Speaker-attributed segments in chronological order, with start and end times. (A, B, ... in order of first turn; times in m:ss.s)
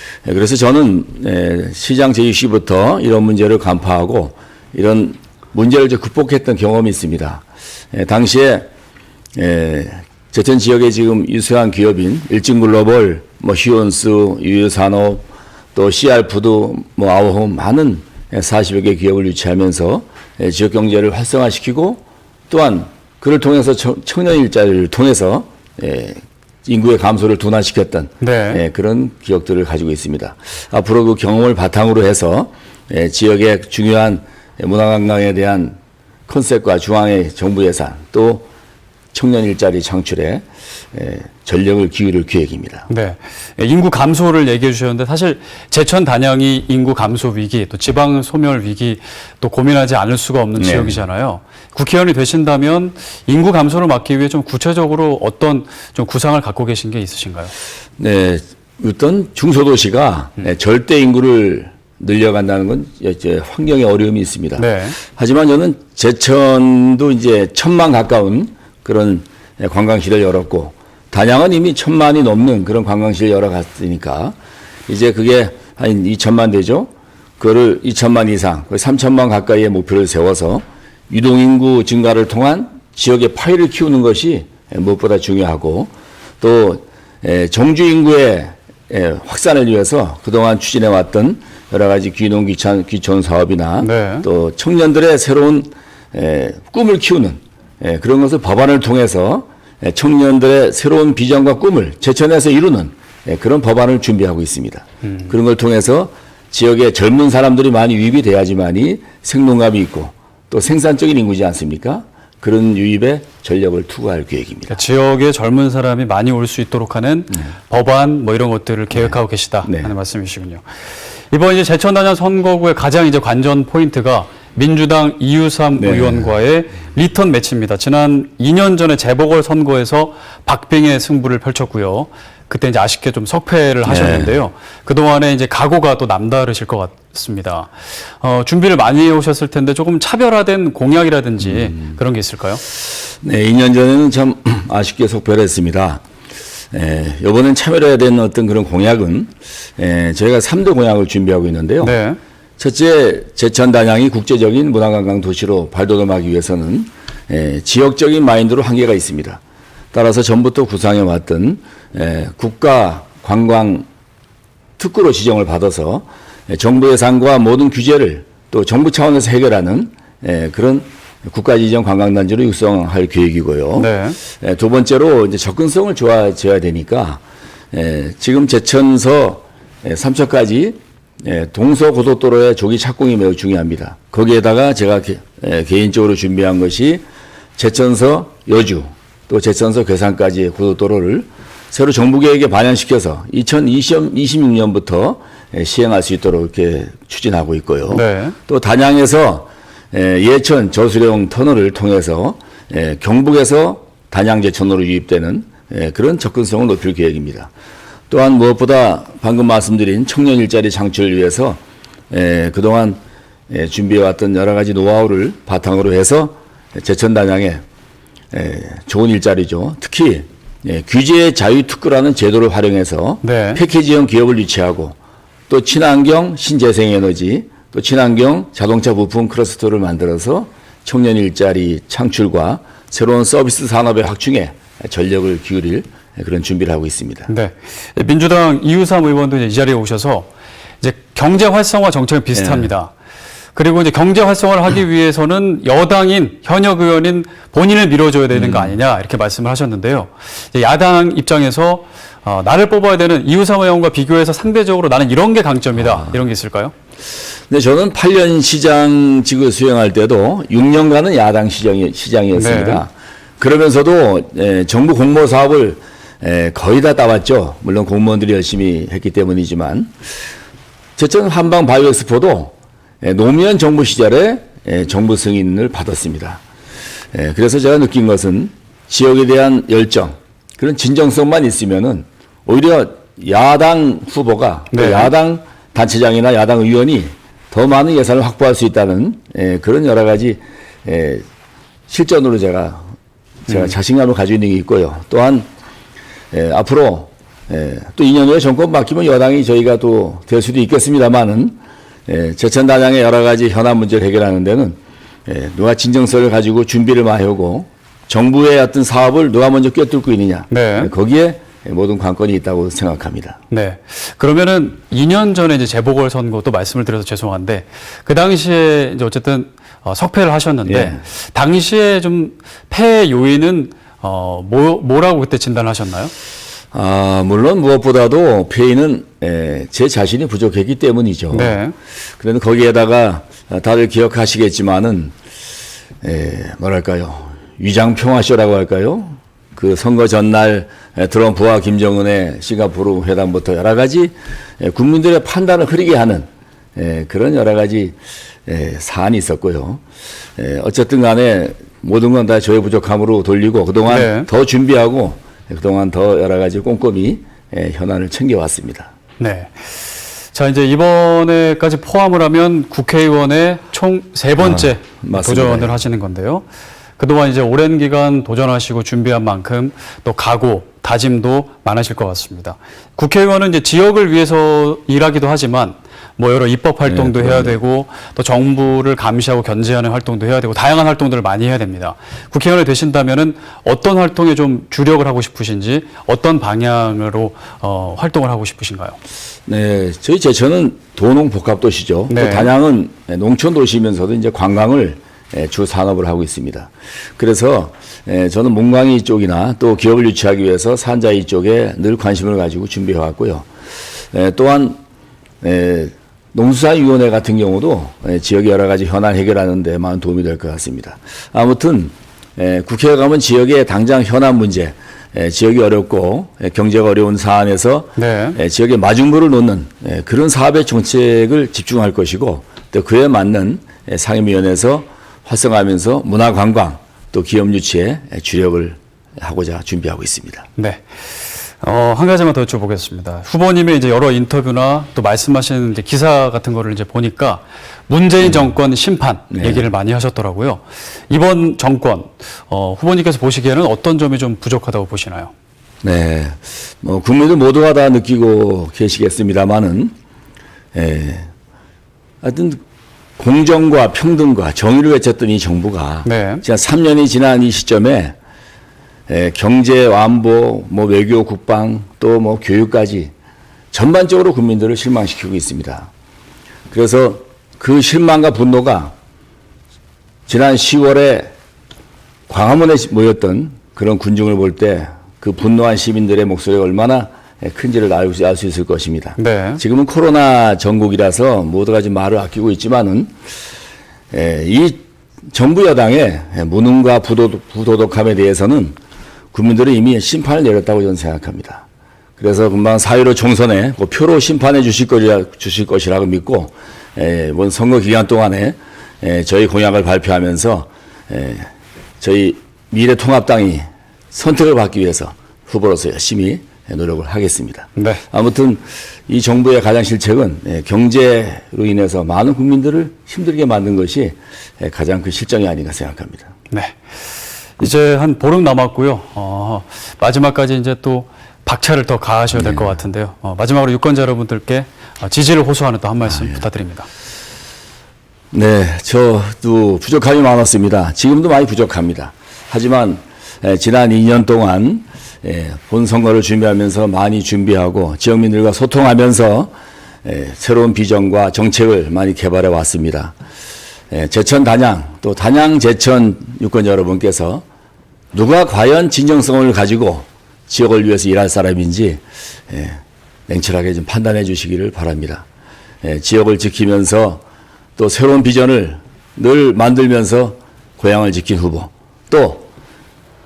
0:00.2-0:08.7 A
0:09.3-0:38.5 A
0:28.2-0:28.6 B
0:39.1-0:42.9 A
0:42.9-0:57.5 B
0:50.6-0:51.0 A
0:58.0-1:14.4 A
1:04.6-1:05.0 B
1:14.9-1:54.8 A
1:33.8-1:34.2 B
1:54.7-2:00.6 B
1:58.9-1:59.9 A
2:01.3-2:22.6 B
2:05.7-2:06.3 A
2:13.8-2:14.4 A
2:21.4-2:21.9 A
2:23.0-2:26.0 A
2:26.7-2:32.0 A
2:31.8-2:32.2 B
2:32.6-2:39.4 A
2:39.9-2:43.9 A
2:44.8-3:07.0 A
2:53.8-2:54.2 B
3:07.6-3:27.5 A
3:17.9-3:18.4 B
3:28.1-3:37.6 A
3:38.3-3:45.0 A
3:43.2-3:43.6 B
3:45.5-3:57.3 A
3:57.3-4:00.3 B
4:00.8-4:02.9 B
4:02.3-4:02.7 A
4:03.5-4:16.7 B
4:08.3-4:08.8 A
4:15.8-4:16.2 A
4:17.5-4:29.9 A
4:22.3-4:22.8 B
4:31.0-4:36.4 A
4:37.1-4:51.2 A
4:44.7-4:45.1 B
4:51.9-4:52.9 A
4:53.5-4:55.5 A
4:56.3-5:13.4 A
5:10.5-5:10.9 B
5:13.5-5:26.1 B
5:20.6-5:21.0 A
5:26.7-5:31.6 A
5:31.3-5:31.7 B
5:32.2-5:35.2 A
5:36.0-5:49.8 A
5:50.4-5:58.9 A
5:53.9-5:54.3 B
5:59.2-6:06.4 B
6:04.4-6:05.8 A
6:07.0-6:29.0 B
6:16.8-6:17.6 A
6:29.5-6:43.5 A
6:32.1-6:32.5 B
6:44.1-6:44.8 A
6:45.4-7:10.5 A
6:58.0-6:58.4 B
7:10.6-7:10.8 B
7:11.6-7:25.3 B
7:18.2-7:18.5 A
7:19.3-7:19.6 A
7:25.8-7:29.9 A
7:30.7-7:31.3 A
7:32.2-7:32.6 A
7:33.2-7:38.2 A
7:36.0-7:36.4 B
7:39.1-7:43.1 A
7:43.7-7:45.9 A
7:46.7-7:48.9 A
7:50.3-7:51.3 A
7:52.3-8:03.1 A
7:59.2-7:59.6 B
8:04.1-8:08.8 A
8:09.3-8:11.6 A
8:12.2-8:36.3 A
8:27.8-8:28.0 B
8:36.5-8:36.9 B
8:37.6-8:46.9 B
8:42.3-8:42.8 A
8:46.1-8:46.4 A
8:48.3-8:59.5 A
9:00.0-9:03.2 A
9:03.9-9:07.4 A
9:08.1-9:15.2 A
9:15.8-9:17.2 A
9:17.8-9:22.5 A